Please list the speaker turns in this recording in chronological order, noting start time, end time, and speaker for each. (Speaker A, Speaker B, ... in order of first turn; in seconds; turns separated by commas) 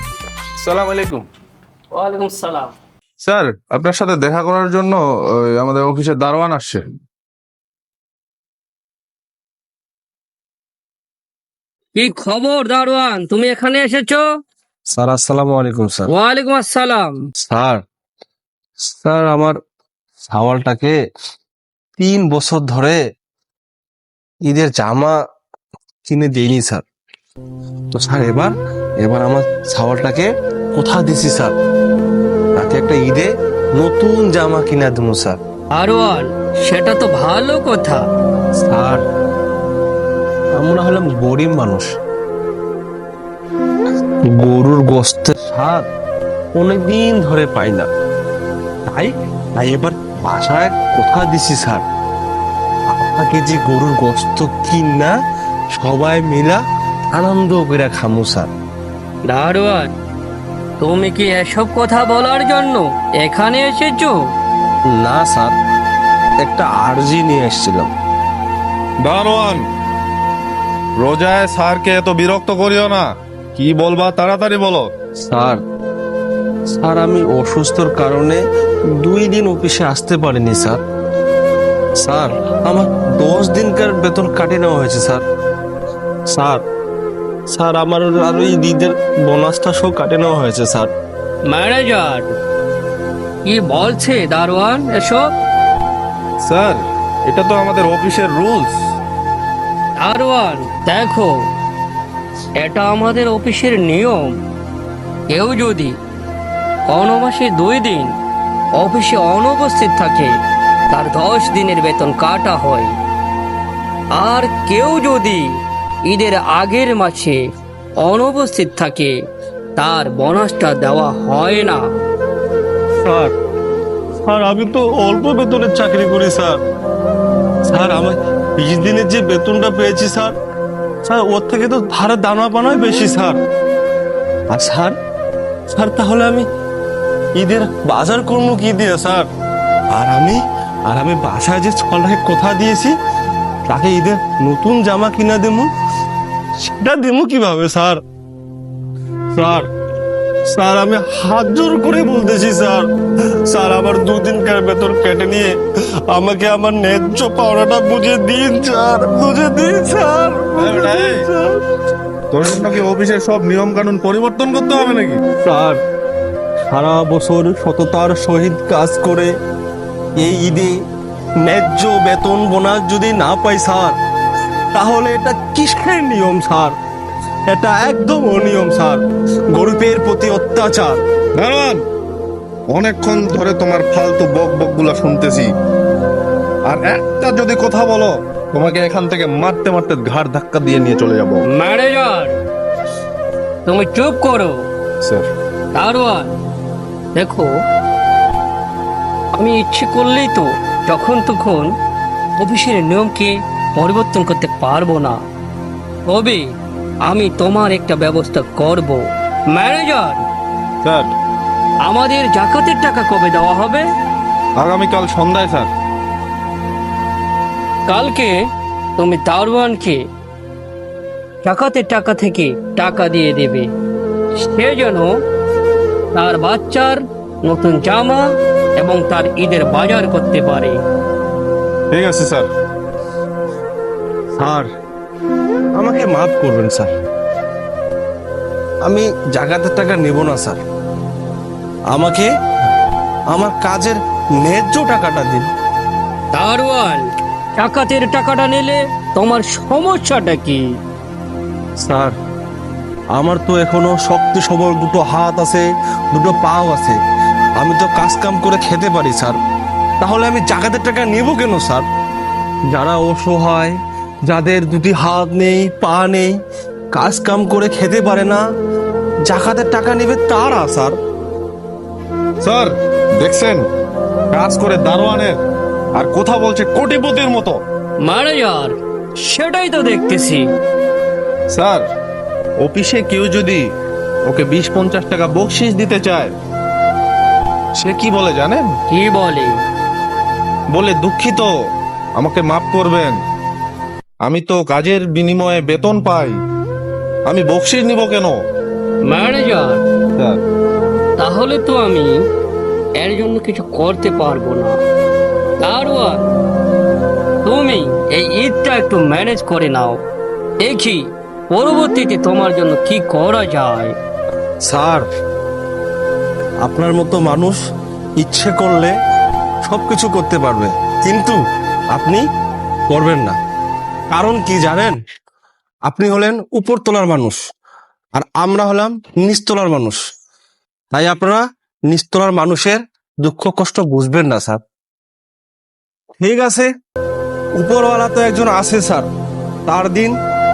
Speaker A: 0.6-1.3, Speaker B: 1.9-2.7, Speaker A: 3.2-6.9, Speaker B: 11.9-14.2, Speaker C: 14.9-16.1, Speaker B: 16.1-17.2, Speaker C: 17.4-17.8, Speaker C: 18.9-19.6, Speaker C: 20.2-20.9, Speaker C: 22.0-23.0, Speaker C: 24.4-25.1, Speaker C: 26.1-26.8, Speaker C: 27.9-31.5, Speaker C: 32.6-35.4, Speaker B: 35.8-38.0, Speaker C: 38.6-39.0, Speaker C: 40.6-41.9, Speaker C: 44.4-45.9, Speaker C: 46.6-47.9, Speaker C: 48.9-51.8, Speaker C: 52.9-55.1, Speaker C: 55.8-56.6, Speaker C: 57.1-58.5, Speaker B: 59.3-59.9, Speaker B: 60.8-64.2, Speaker C: 64.9-65.5, Speaker C: 66.4-67.9, Speaker A: 69.0-69.6, Speaker A: 71.0-74.9, Speaker C: 75.2-75.6, Speaker C: 76.7-78.4, Speaker C: 79.0-80.8, Speaker C: 82.0-85.2, Speaker C: 86.3-86.6, Speaker C: 87.5-90.9, Speaker B: 91.5-92.3, Speaker B: 93.5-95.3, Speaker A: 96.4-98.7, Speaker B: 100.0-101.3, Speaker B: 102.6-104.3, Speaker B: 105.3-105.9, Speaker B: 106.9-108.1, Speaker B: 108.8-110.3, Speaker B: 110.9-112.9, Speaker B: 114.2-115.5, Speaker B: 116.1-117.4, Speaker B: 118.0-119.1, Speaker B: 119.8-121.8, Speaker C: 123.0-123.3, Speaker C: 124.2-126.6, Speaker C: 127.7-130.3, Speaker C: 131.1-133.4, Speaker C: 134.5-134.9, Speaker C: 135.7-136.4, Speaker C: 137.4-139.3, Speaker C: 139.9-142.9, Speaker C: 143.7-145.7, Speaker C: 146.6-148.0, Speaker C: 149.4-149.7, Speaker C: 150.5-152.9, Speaker C: 153.5-155.6, Speaker C: 156.1-161.6, Speaker A: 160.6-161.3, Speaker A: 162.3-165.2, Speaker C: 165.4-165.8, Speaker C: 166.7-169.3, Speaker C: 170.2-170.7, Speaker C: 171.4-173.9, Speaker C: 174.7-176.8, Speaker C: 177.5-179.0, Speaker C: 179.5-181.0, Speaker A: 181.4-181.8, Speaker A: 182.7-185.5, Speaker A: 186.7-191.4, Speaker B: 191.5-192.3, Speaker B: 193.7-194.6, Speaker A: 195.0-195.3, Speaker B: 195.8-196.3, Speaker B: 197.2-197.5, Speaker B: 199.4-201.7, Speaker B: 202.4-205.2, Speaker B: 206.1-206.4, Speaker B: 207.1-209.0, Speaker B: 209.5-210.2, Speaker A: 210.8-211.1, Speaker B: 211.9-213.8, Speaker A: 214.6-215.7, Speaker B: 217.9-218.3, Speaker B: 219.0-220.0, Speaker B: 221.4-223.7, Speaker B: 224.4-225.1, Speaker B: 226.2-228.2, Speaker B: 228.8-230.8, Speaker A: 231.9-232.5, Speaker C: 234.4-234.7, Speaker C: 235.8-236.9, Speaker C: 238.8-240.6, Speaker C: 241.9-242.3, Speaker C: 243.3-245.5, Speaker B: 246.3-247.1, Speaker B: 247.6-250.6, Speaker C: 251.8-252.2, Speaker C: 253.2-257.0, Speaker C: 257.6-259.4, Speaker C: 260.0-261.9, Speaker C: 262.7-263.8, Speaker C: 264.3-266.3, Speaker C: 266.9-268.4, Speaker C: 269.3-271.0, Speaker A: 272.4-273.6, Speaker A: 274.3-275.4, Speaker A: 276.0-277.6, Speaker B: 278.1-280.5, Speaker A: 281.5-281.9, Speaker A: 282.6-283.6, Speaker A: 284.3-286.3, Speaker A: 287.8-288.7, Speaker B: 288.9-289.5, Speaker A: 290.7-291.5, Speaker A: 292.2-293.2, Speaker A: 294.2-296.4, Speaker A: 297.3-298.4, Speaker B: 299.1-299.8, Speaker B: 301.2-302.1, Speaker B: 303.0-304.7, Speaker B: 305.6-306.3, Speaker B: 307.4-310.0, Speaker B: 310.6-311.0, Speaker B: 311.5-313.9, Speaker C: 314.6-315.1, Speaker C: 316.6-317.6, Speaker C: 318.2-318.9, Speaker C: 319.6-321.4, Speaker C: 321.9-322.2, Speaker C: 322.9-323.4, Speaker C: 324.1-325.0, Speaker C: 325.9-327.4, Speaker C: 328.1-330.0, Speaker C: 330.9-334.6, Speaker C: 336.2-336.7, Speaker C: 337.6-339.1, Speaker C: 339.7-340.1